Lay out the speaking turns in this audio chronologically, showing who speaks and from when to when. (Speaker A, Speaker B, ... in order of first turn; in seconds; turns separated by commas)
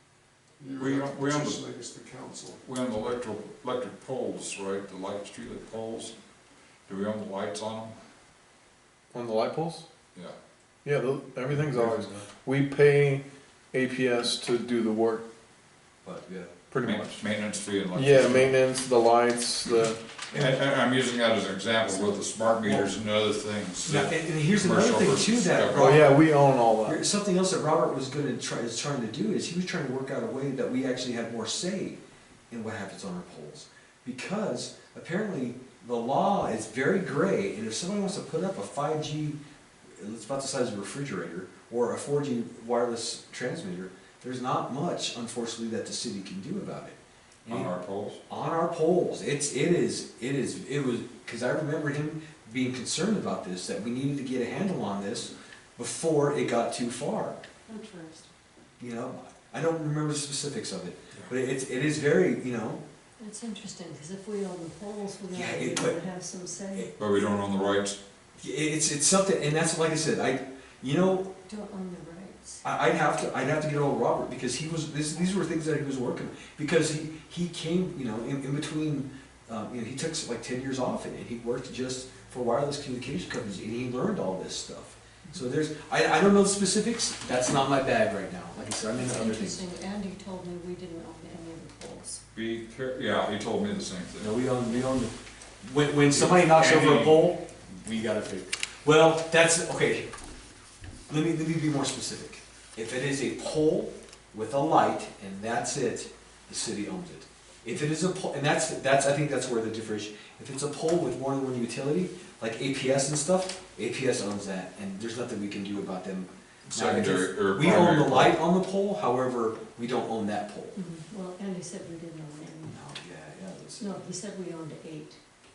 Speaker A: 0.6-2.6, Speaker B: 0.8-1.6, Speaker B: 2.6-6.2, Speaker B: 6.9-7.9, Speaker C: 9.1-9.8, Speaker C: 10.8-15.2, Speaker A: 11.7-12.1, Speaker D: 16.0-16.5, Speaker C: 16.7-17.2, Speaker B: 16.8-18.6, Speaker C: 17.9-20.0, Speaker B: 20.3-26.0, Speaker D: 22.6-22.9, Speaker D: 23.9-39.4, Speaker C: 25.7-27.0, Speaker D: 39.9-47.7, Speaker B: 47.5-48.2, Speaker D: 48.3-57.4, Speaker E: 57.7-58.3, Speaker D: 58.8-62.8, Speaker E: 63.2-66.9, Speaker D: 65.3-66.0, Speaker B: 67.0-68.0, Speaker D: 68.4-71.3, Speaker E: 71.5-72.6, Speaker D: 72.6-89.6, Speaker E: 89.0-92.2, Speaker B: 92.3-94.3, Speaker D: 94.2-100.1, Speaker B: 96.1-97.3, Speaker D: 101.1-120.8, Speaker B: 116.7-118.4, Speaker E: 120.7-122.8, Speaker D: 122.6-123.8, Speaker E: 123.8-125.2